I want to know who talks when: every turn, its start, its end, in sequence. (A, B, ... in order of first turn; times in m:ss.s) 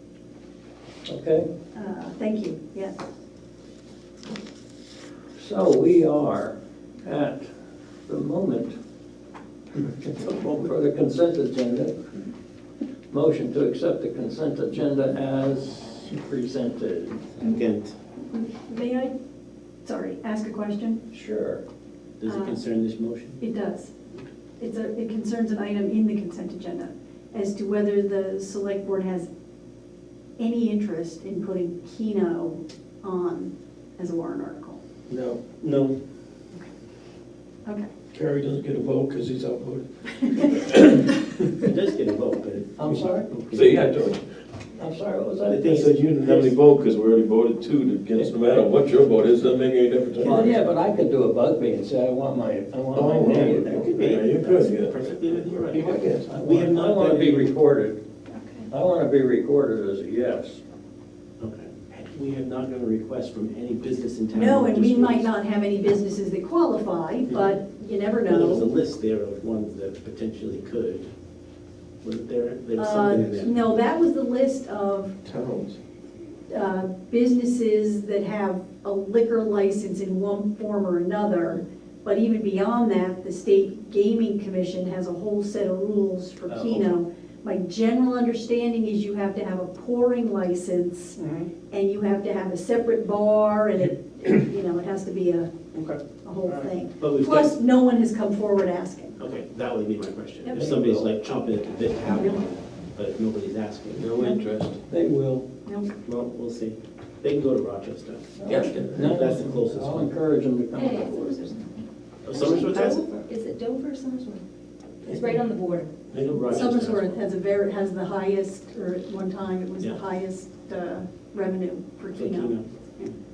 0:01.1-0:01.5 A
0:01.7-0:03.1 B
0:05.4-0:07.5 A
0:08.1-0:08.8 A
0:09.8-0:12.0 A
0:13.1-0:17.2 A
0:17.4-0:17.9 C
0:18.3-0:19.1 B
0:19.8-0:21.0 B
0:21.1-0:21.6 A
0:22.2-0:23.4 C
0:22.3-0:22.6 B
0:23.4-0:23.9 B
0:24.6-0:29.3 B
0:30.4-0:34.8 B
0:35.1-0:35.6 D
0:35.6-0:35.9 C
0:37.7-0:37.9 B
0:38.1-0:41.5 D
0:41.6-0:43.9 C
0:42.8-0:43.5 A
0:42.9-0:44.3 D
0:44.8-0:45.8 A
0:45.5-0:46.6 C
0:45.7-0:50.6 D
0:50.2-0:50.5 C
0:50.2-0:53.9 A
0:52.9-0:56.3 D
0:53.2-0:57.5 C
0:55.7-0:58.0 A
0:58.3-0:58.7 E
0:58.7-1:00.6 A
1:01.4-1:05.3 C
1:04.3-1:08.7 B
1:08.3-1:11.1 C
1:12.0-1:13.6 C
1:12.8-1:15.2 B
1:15.2-1:15.8 D
1:16.5-1:31.2 B
1:26.5-1:26.9 C
1:31.2-1:31.5 C
1:31.7-1:35.5 B
1:35.7-1:37.6 C
1:36.2-1:39.2 B
1:39.2-1:44.1 C
1:40.4-1:40.7 B
1:40.5-1:41.1 D
1:42.1-1:42.4 B
1:44.0-1:44.8 D
1:44.9-1:45.5 A
1:45.7-1:45.9 B
1:46.0-1:50.1 C
1:48.4-1:51.4 A
1:48.5-1:49.1 D
1:50.8-1:54.4 E
1:52.2-1:53.0 C
1:55.0-1:55.9 E
1:56.1-1:57.2 C
1:56.5-2:03.1 B
2:02.1-2:02.7 C